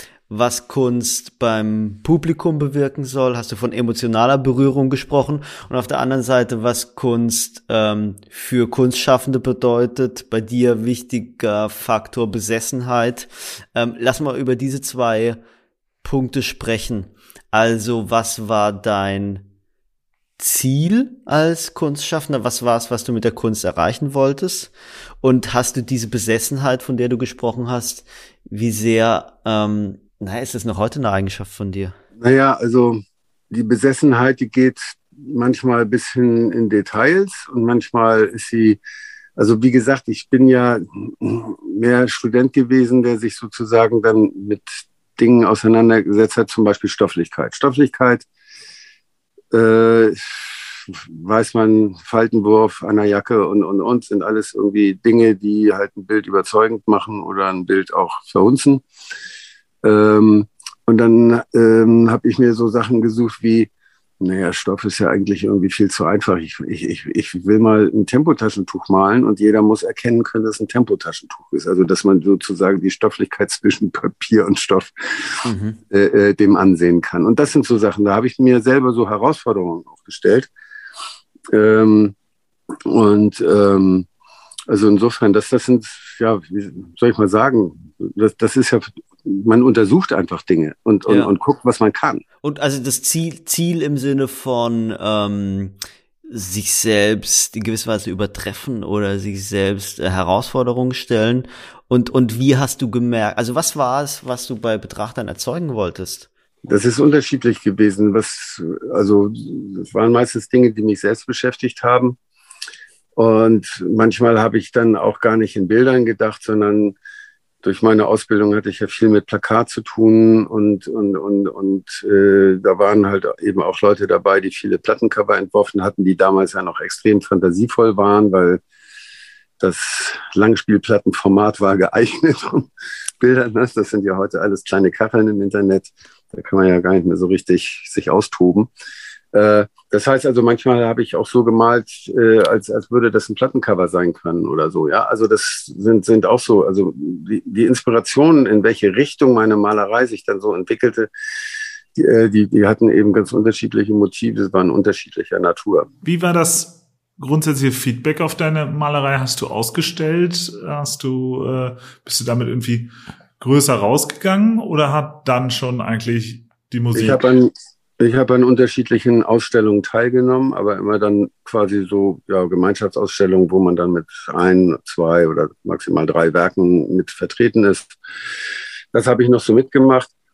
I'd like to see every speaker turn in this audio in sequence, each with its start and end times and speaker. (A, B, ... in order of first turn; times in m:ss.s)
0:00.3-0:15.4 A
0:16.0-0:19.4 A
0:20.4-0:32.0 A
0:32.2-0:38.8 B
0:39.4-0:48.2 B
0:49.5-0:58.8 B
0:59.8-1:03.7 B
1:04.2-1:15.4 B
1:15.4-1:15.8 A
1:15.9-1:20.5 B
1:21.5-1:22.1 B
1:22.8-1:24.1 B
1:24.7-1:32.2 B
1:31.1-1:31.3 A
1:32.4-1:35.7 A
1:36.3-1:46.3 A
1:46.6-1:52.2 B
1:53.2-1:57.0 B
1:57.6-2:08.6 B
2:09.6-2:12.7 B
2:13.2-2:18.7 B
2:19.3-2:31.1 B
2:31.9-2:35.9 B
2:36.0-2:47.2 C
2:46.9-2:58.0 B
2:58.9-3:00.1 B